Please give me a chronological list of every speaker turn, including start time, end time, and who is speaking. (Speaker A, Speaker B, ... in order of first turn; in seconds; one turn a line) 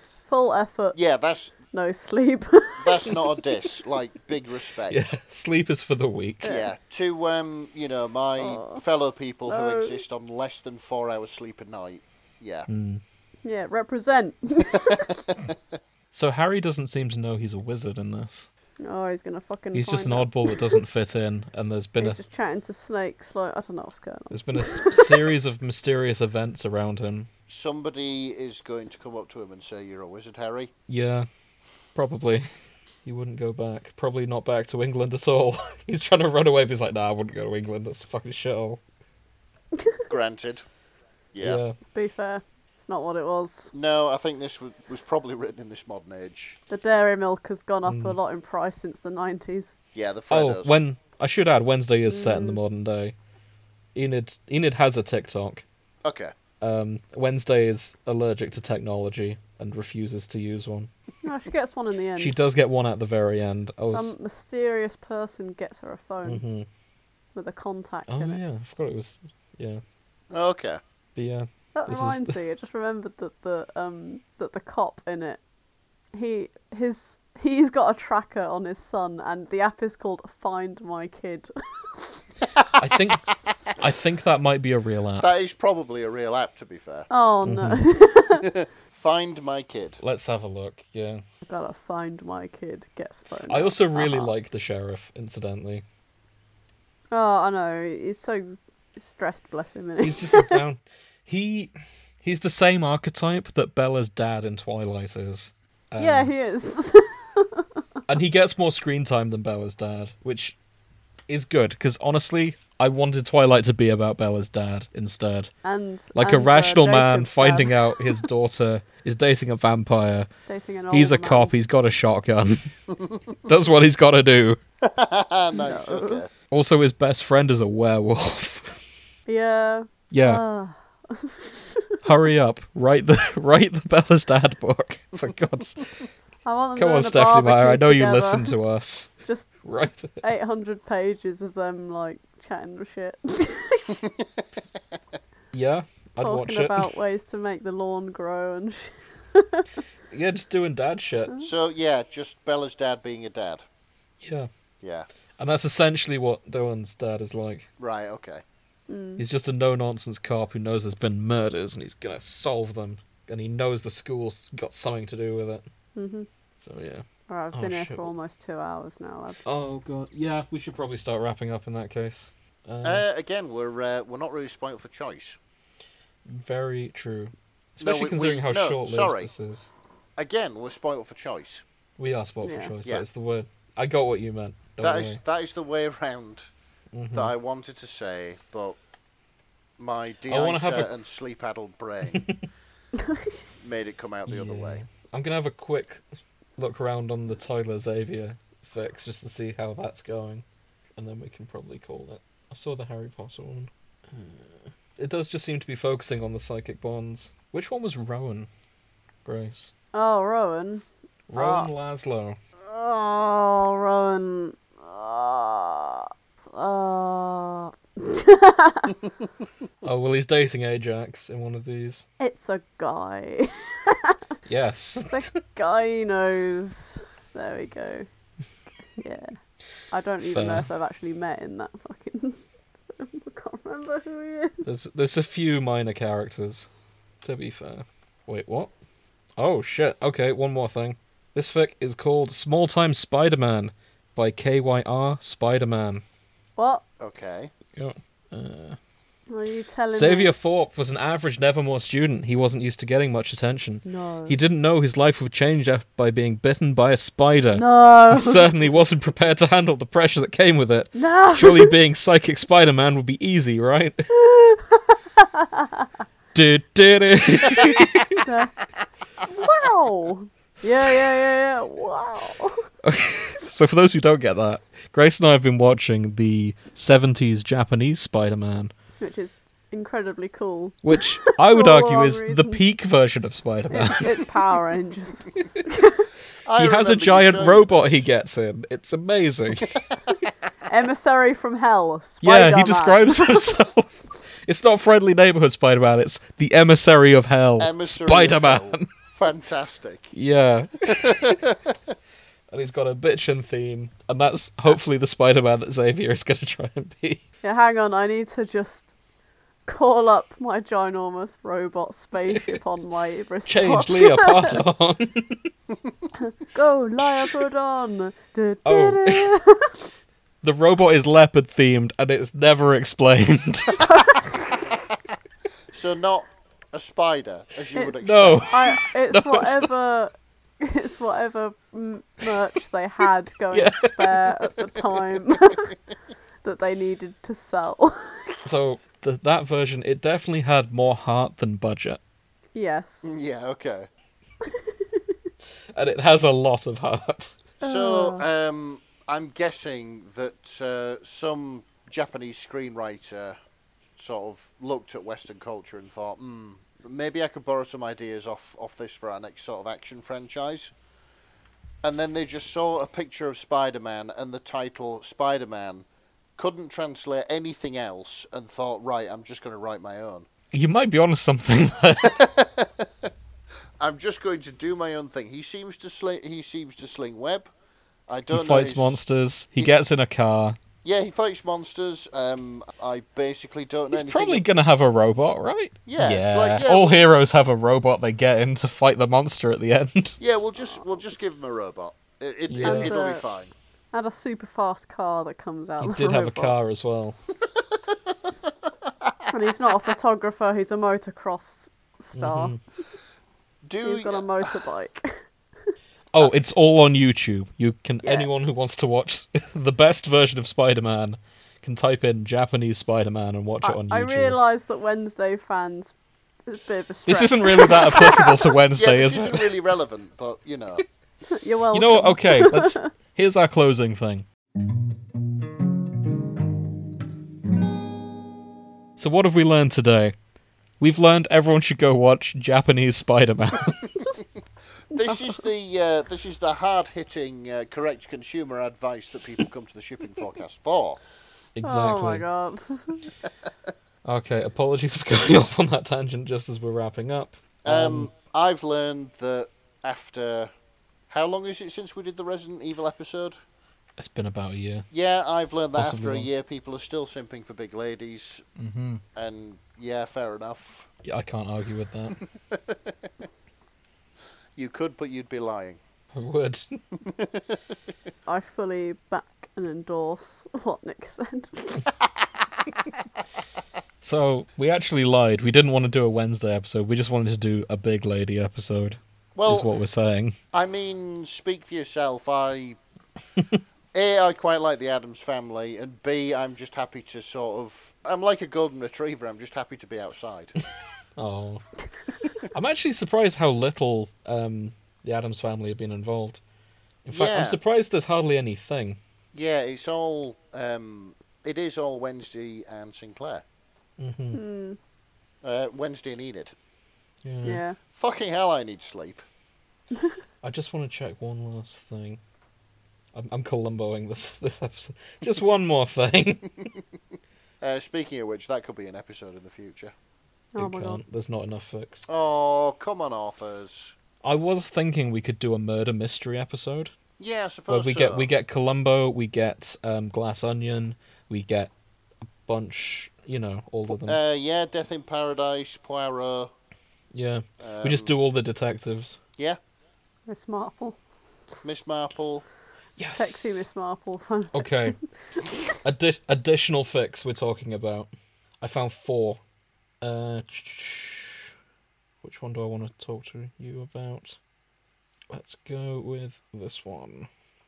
Speaker A: 0.3-1.0
Speaker B: 0.9-1.6
Speaker A: 1.7-3.6
Speaker B: 2.8-5.1
Speaker C: 4.9-6.5
Speaker A: 6.4-6.7
Speaker B: 6.5-12.7
Speaker A: 8.4-8.8
Speaker A: 9.5-10.0
Speaker C: 12.7-13.0
Speaker A: 13.4-15.2
Speaker B: 15.3-15.5
Speaker C: 16.1-18.5
Speaker A: 18.8-20.8
Speaker C: 19.7-22.2
Speaker A: 22.0-25.3
Speaker C: 24.3-27.3
Speaker B: 27.5-30.7
Speaker C: 30.9-31.3
Speaker C: 31.9-32.5
Speaker C: 33.0-38.8
Speaker B: 40.1-40.6
Speaker B: 41.3-41.6
Speaker C: 41.4-41.8
Speaker A: 41.9-43.7
Speaker B: 43.7-46.6
Speaker A: 46.7-49.7
Speaker C: 47.9-48.1
Speaker B: 49.9-50.8
Speaker C: 50.3-53.1
Speaker A: 52.1-52.6
Speaker C: 53.9-55.6
Speaker B: 56.0-56.3
Speaker C: 56.6-60.9
Speaker A: 61.2-62.4
Speaker C: 62.2-64.1
Speaker A: 63.8-66.4
Speaker C: 66.2-66.7
Speaker A: 67.3-68.4
Speaker C: 68.1-69.8
Speaker B: 70.3-70.8
Speaker C: 71.2-72.3
Speaker A: 71.8-75.4
Speaker A: 76.1-82.2
Speaker C: 82.8-85.3
Speaker B: 85.2-87.1
Speaker A: 87.1-88.4
Speaker C: 87.4-87.8
Speaker B: 88.3-90.0
Speaker C: 90.0-91.2
Speaker A: 91.5-94.3
Speaker C: 93.5-95.8
Speaker A: 97.1-100.6
Speaker C: 100.0-106.5
Speaker A: 106.0-107.7
Speaker C: 108.1-110.5
Speaker C: 111.3-115.5
Speaker A: 115.6-118.2
Speaker C: 116.1-120.3
Speaker A: 120.5-121.5
Speaker C: 120.9-122.7
Speaker C: 123.4-124.6
Speaker B: 124.8-126.3
Speaker A: 125.5-126.2
Speaker C: 126.5-128.8
Speaker A: 129.3-132.0
Speaker C: 130.1-130.4
Speaker C: 132.0-136.0
Speaker A: 136.4-138.5
Speaker C: 136.8-139.1
Speaker A: 139.2-139.5
Speaker C: 139.6-140.2
Speaker A: 140.2-144.0
Speaker B: 144.0-144.4
Speaker C: 145.5-146.9
Speaker A: 146.2-149.7
Speaker C: 150.1-151.3
Speaker B: 151.4-153.6
Speaker C: 154.2-154.5
Speaker B: 154.8-155.1
Speaker C: 155.4-157.7
Speaker B: 157.8-158.4
Speaker A: 158.9-159.2
Speaker C: 159.2-165.6
Speaker A: 165.9-166.3
Speaker C: 166.6-168.1
Speaker A: 167.3-169.4
Speaker C: 169.4-173.0
Speaker B: 172.8-175.4
Speaker C: 176.2-179.7
Speaker B: 177.8-179.3
Speaker B: 180.2-181.6
Speaker C: 182.0-185.2
Speaker A: 182.4-182.7
Speaker B: 184.8-186.5
Speaker C: 186.9-187.3
Speaker B: 187.1-188.8
Speaker B: 189.8-192.3
Speaker C: 190.3-190.9
Speaker C: 192.1-192.4
Speaker A: 193.1-193.3
Speaker B: 193.6-194.8
Speaker C: 194.3-196.0
Speaker C: 196.6-200.4
Speaker C: 201.0-208.5
Speaker C: 209.2-209.7
Speaker A: 209.9-210.8
Speaker C: 211.3-212.4
Speaker A: 211.3-211.7
Speaker A: 212.7-219.0
Speaker C: 219.8-222.1
Speaker A: 222.2-224.2
Speaker C: 224.4-225.3
Speaker A: 225.0-228.1
Speaker A: 229.0-229.4
Speaker A: 229.9-234.7
Speaker C: 230.2-230.7
Speaker C: 234.6-236.7
Speaker C: 237.2-238.7
Speaker C: 239.4-246.0
Speaker A: 246.6-246.8
Speaker B: 247.0-247.5
Speaker C: 247.7-248.8
Speaker A: 249.3-250.3
Speaker C: 249.9-264.1
Speaker A: 253.8-254.3
Speaker A: 257.5-258.5
Speaker A: 260.9-261.7
Speaker A: 264.1-265.9
Speaker C: 266.3-268.2
Speaker A: 268.2-268.5
Speaker A: 269.2-272.7
Speaker C: 272.8-278.7
Speaker A: 279.0-282.6
Speaker C: 280.8-284.3
Speaker A: 283.7-286.1
Speaker B: 286.4-288.1
Speaker C: 286.6-289.7
Speaker B: 289.6-290.1
Speaker A: 290.6-293.7
Speaker C: 292.2-298.9
Speaker B: 297.6-300.1
Speaker C: 300.1-301.5
Speaker B: 300.9-301.8
Speaker C: 302.5-307.2
Speaker A: 307.4-308.9
Speaker A: 309.7-314.6
Speaker C: 312.3-312.6
Speaker C: 313.4-315.5
Speaker A: 316.2-319.9
Speaker C: 318.6-319.3
Speaker C: 320.4-324.0
Speaker A: 323.8-324.6
Speaker B: 325.7-328.6
Speaker A: 327.7-335.7
Speaker C: 328.0-329.7
Speaker C: 333.5-334.5
Speaker A: 336.4-338.4
Speaker C: 338.4-342.0
Speaker A: 342.5-343.1
Speaker B: 343.0-343.9
Speaker C: 345.7-347.4
Speaker A: 347.6-348.2
Speaker B: 347.6-353.4
Speaker B: 354.0-360.7
Speaker B: 361.8-365.9
Speaker B: 366.4-370.3
Speaker C: 370.5-372.2
Speaker B: 372.0-373.1
Speaker B: 373.8-377.5
Speaker B: 378.1-379.0
Speaker C: 378.3-380.6
Speaker B: 380.8-384.4
Speaker C: 383.9-390.2
Speaker B: 385.9-387.0
Speaker B: 390.2-393.5
Speaker C: 392.5-392.9
Speaker A: 392.6-393.2
Speaker A: 393.9-396.5
Speaker C: 395.8-397.2
Speaker B: 398.9-399.1
Speaker A: 399.3-402.5
Speaker C: 402.1-402.6
Speaker B: 403.6-404.5
Speaker A: 403.8-405.1
Speaker C: 406.1-414.4
Speaker A: 408.0-408.3
Speaker A: 413.6-415.9
Speaker A: 416.4-418.5
Speaker C: 417.1-419.5
Speaker B: 418.7-420.8
Speaker A: 421.3-422.9
Speaker C: 421.7-424.2
Speaker C: 429.0-430.1
Speaker C: 430.8-434.0
Speaker B: 434.9-441.0
Speaker A: 434.9-435.3
Speaker C: 441.6-442.2
Speaker A: 441.6-443.1
Speaker C: 444.0-448.1
Speaker B: 447.6-450.5
Speaker B: 451.1-453.4
Speaker C: 454.0-454.9
Speaker B: 454.9-458.4
Speaker C: 455.8-456.3
Speaker C: 458.6-459.0
Speaker B: 459.1-460.9
Speaker C: 461.0-462.2
Speaker B: 462.2-463.1
Speaker B: 464.6-465.8
Speaker C: 466.1-466.8
Speaker B: 467.0-467.6
Speaker A: 468.3-471.9
Speaker C: 474.0-480.4
Speaker B: 479.4-479.7
Speaker B: 480.5-482.8
Speaker B: 483.9-490.5
Speaker C: 491.2-491.6
Speaker C: 492.4-496.4
Speaker C: 497.0-499.0
Speaker B: 497.1-497.6
Speaker B: 499.3-503.4
Speaker C: 504.0-504.4
Speaker A: 504.3-504.8
Speaker B: 505.4-506.5
Speaker C: 507.2-507.6
Speaker A: 507.4-507.8
Speaker B: 507.9-509.2
Speaker C: 510.4-512.2
Speaker C: 513.1-516.7
Speaker B: 517.6-519.9
Speaker A: 520.5-521.0
Speaker C: 520.6-522.1
Speaker B: 522.1-524.0
Speaker C: 524.2-526.9
Speaker B: 527.2-528.3
Speaker C: 527.7-531.7
Speaker C: 532.4-534.2
Speaker B: 533.9-536.5
Speaker C: 537.1-539.2
Speaker B: 537.6-538.1
Speaker A: 540.3-541.0
Speaker B: 541.6-542.5
Speaker C: 543.0-543.7
Speaker A: 543.1-544.9
Speaker C: 544.5-545.0
Speaker C: 545.8-548.1
Speaker C: 548.6-549.4
Speaker C: 550.0-551.5
Speaker C: 552.2-554.4
Speaker C: 555.3-557.3